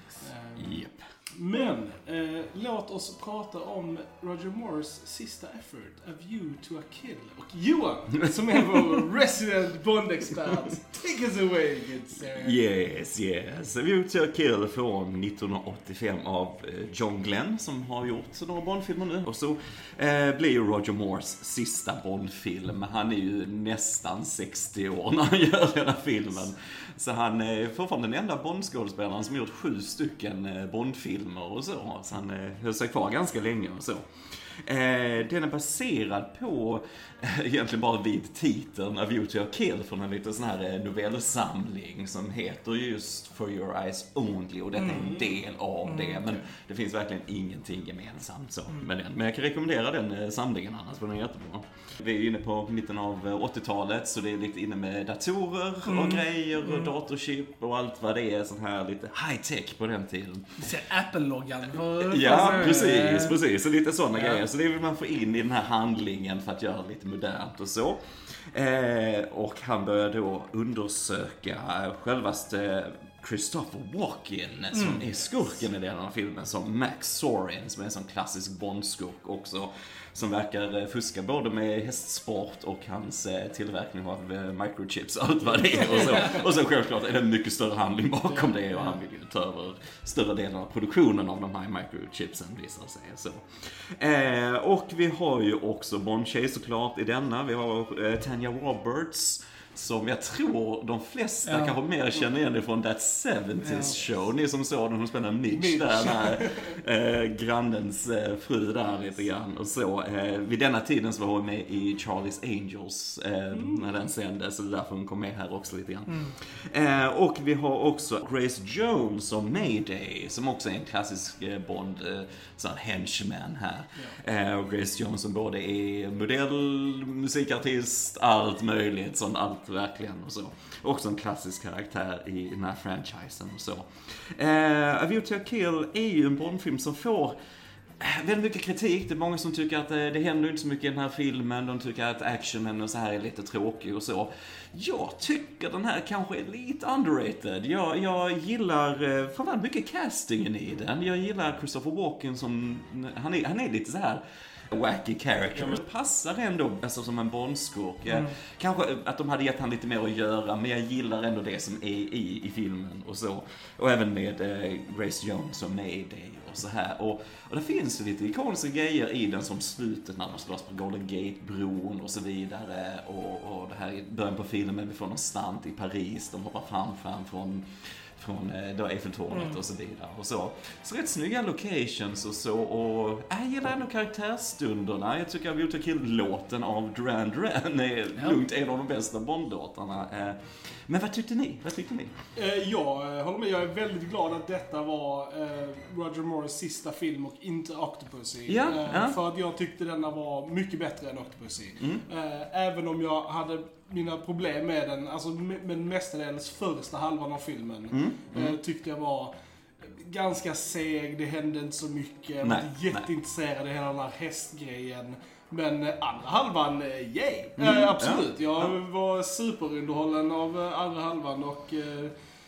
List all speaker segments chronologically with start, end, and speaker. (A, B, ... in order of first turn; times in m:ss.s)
0:00.2-0:12.6 A
0:00.6-0:01.0 B
0:08.2-0:09.0 B
0:12.3-1:00.7 B
0:44.8-0:45.2 C
0:45.0-0:45.3 A
0:45.8-0:46.4 C
0:55.9-0:57.0 C
1:00.6-1:03.4 C
1:01.9-2:17.4 B
1:04.2-1:04.4 C
1:14.7-1:15.1 C
1:25.8-1:26.3 A
1:25.8-1:26.4 C
1:41.5-1:41.8 C
1:43.6-1:44.0 C
1:45.5-1:46.8 A
1:53.5-1:53.9 A
2:18.0-3:12.2 B
2:59.3-2:59.6 C
3:12.4-3:42.1 A
3:18.5-3:19.2 B
3:27.9-3:28.6 B
3:32.4-3:33.1 B
3:37.6-3:38.7 B